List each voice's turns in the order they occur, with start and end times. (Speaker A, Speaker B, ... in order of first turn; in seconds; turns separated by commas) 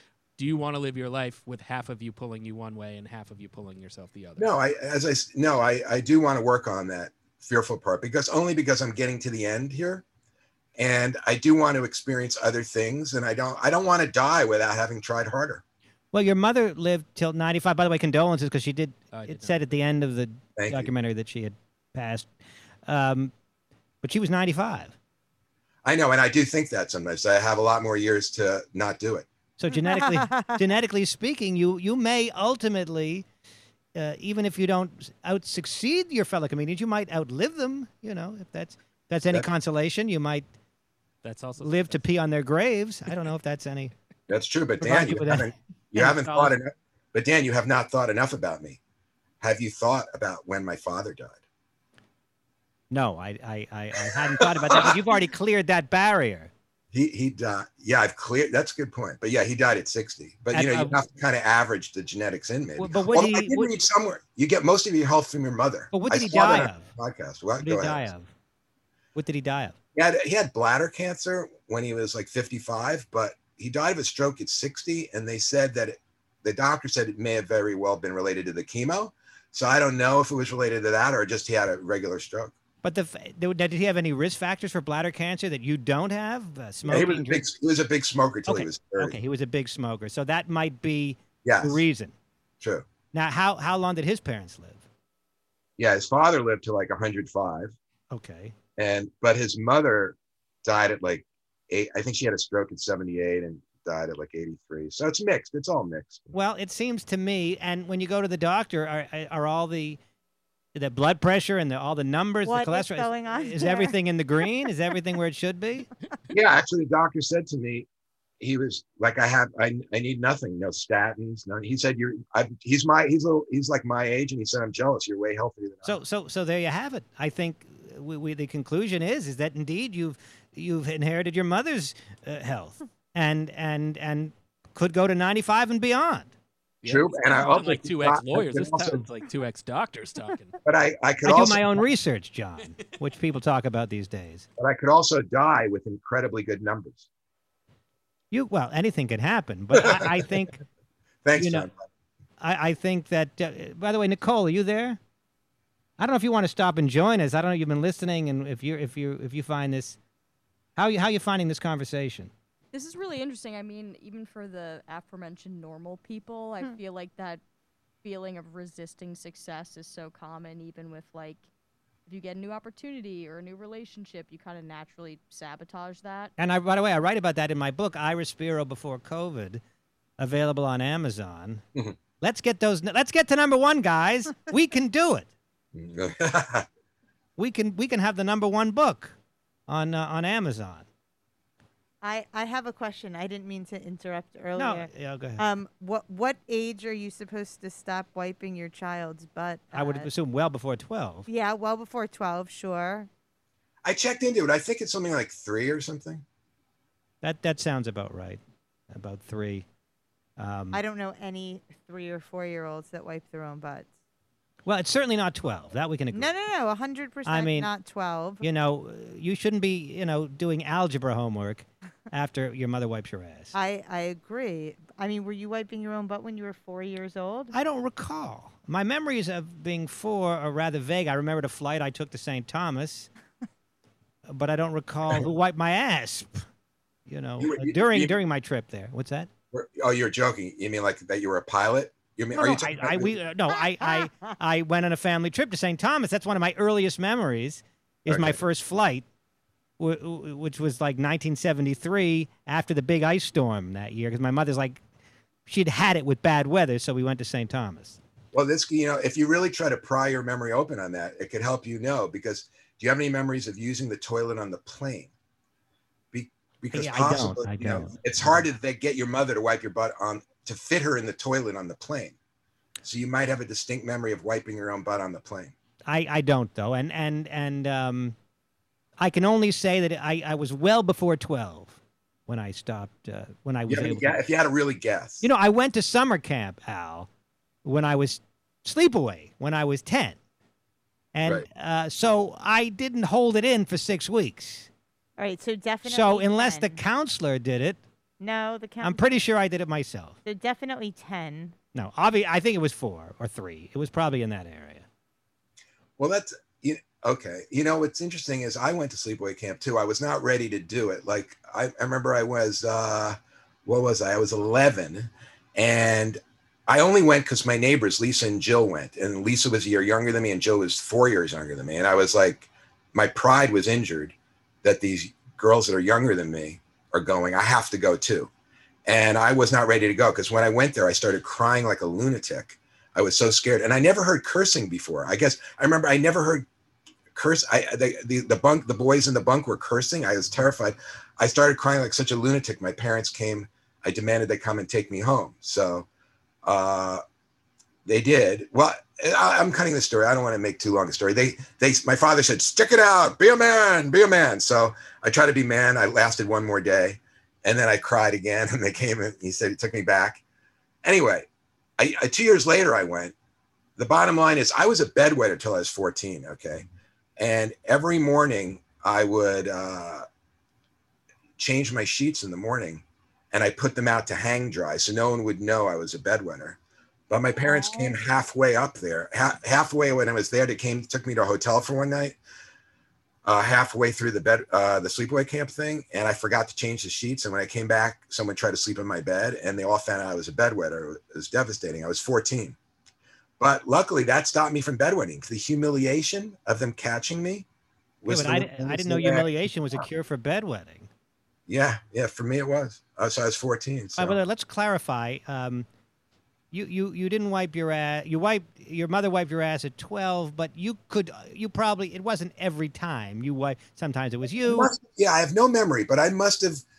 Speaker A: 0.4-4.5, Speaker B: 4.4-10.0, Speaker B: 10.8-15.6, Speaker C: 16.1-22.3, Speaker A: 19.1-19.5, Speaker B: 20.6-20.9, Speaker C: 22.9-23.3, Speaker C: 24.0-24.9, Speaker B: 25.9-29.3, Speaker C: 29.6-33.2, Speaker D: 29.9-30.5, Speaker C: 34.0-40.5, Speaker A: 41.2-42.0, Speaker C: 41.6-43.9, Speaker B: 44.3-48.8, Speaker C: 44.8-46.5, Speaker B: 49.4-51.4, Speaker C: 52.9-56.5, Speaker B: 54.0-55.0, Speaker B: 56.9-68.1, Speaker C: 60.5-61.0, Speaker C: 62.8-63.7, Speaker C: 65.9-66.9, Speaker C: 67.6-68.3, Speaker C: 69.2-69.8, Speaker B: 70.0-82.5, Speaker C: 82.8-87.5, Speaker B: 86.9-89.2, Speaker C: 88.5-92.1, Speaker B: 91.5-91.8, Speaker C: 93.1-94.8, Speaker B: 95.8-97.7, Speaker C: 98.1-98.5, Speaker B: 98.8-106.3, Speaker C: 106.3-110.0, Speaker C: 110.8-115.9, Speaker D: 112.5-114.0, Speaker B: 116.3-117.9, Speaker B: 118.4-126.0, Speaker C: 125.8-136.3, Speaker A: 136.8-140.6, Speaker B: 136.8-139.0, Speaker B: 140.7-141.8, Speaker C: 141.2-144.5, Speaker B: 144.6-147.0, Speaker C: 148.3-150.6, Speaker B: 149.8-150.2, Speaker B: 151.2-151.8, Speaker C: 151.4-151.7, Speaker C: 152.4-155.0, Speaker C: 156.0-160.0, Speaker C: 160.8-162.3, Speaker E: 162.7-167.4, Speaker E: 168.0-171.5, Speaker E: 172.1-176.3, Speaker C: 176.4-179.6, Speaker C: 180.2-181.6, Speaker C: 182.2-185.3, Speaker B: 185.7-186.7, Speaker C: 187.4-189.1, Speaker C: 189.7-190.9, Speaker D: 192.0-200.1, Speaker C: 194.6-195.4, Speaker C: 199.7-201.3, Speaker D: 201.3-203.1, Speaker B: 203.8-206.2, Speaker C: 207.2-209.7, Speaker C: 210.4-210.8, Speaker D: 210.7-213.9, Speaker C: 214.7-216.3, Speaker D: 216.1-218.4, Speaker C: 217.3-217.7, Speaker C: 218.4-223.5, Speaker D: 223.5-227.6, Speaker C: 227.5-233.1, Speaker C: 234.3-236.5, Speaker C: 237.1-239.3, Speaker B: 237.4-238.2, Speaker B: 239.5-243.1, Speaker C: 242.3-249.1, Speaker B: 248.1-248.4, Speaker C: 249.8-254.8, Speaker C: 255.5-258.0, Speaker B: 258.3-265.1, Speaker B: 266.1-272.1, Speaker C: 266.7-267.9, Speaker B: 272.8-275.5, Speaker C: 275.9-278.2, Speaker C: 279.0-284.2, Speaker B: 283.7-285.2, Speaker C: 285.2-287.1, Speaker C: 287.6-290.2, Speaker C: 291.1-294.7, Speaker D: 295.2-296.8, Speaker C: 295.9-297.8, Speaker D: 298.2-299.2, Speaker C: 298.8-300.2, Speaker D: 300.2-301.6, Speaker C: 301.7-304.9, Speaker B: 306.0-328.3, Speaker B: 328.9-336.5, Speaker B: 337.1-345.9, Speaker B: 346.4-347.0, Speaker B: 347.9-360.2, Speaker B: 360.8-361.3, Speaker B: 361.8-363.1, Speaker B: 363.8-370.1, Speaker B: 371.4-376.6, Speaker B: 377.1-382.2, Speaker E: 377.4-377.7, Speaker B: 383.2-392.6, Speaker B: 393.4-397.5, Speaker B: 398.0-399.9, Speaker C: 398.1-400.9, Speaker B: 401.5-404.2, Speaker C: 404.0-405.7, Speaker C: 406.5-414.7, Speaker B: 414.4-416.6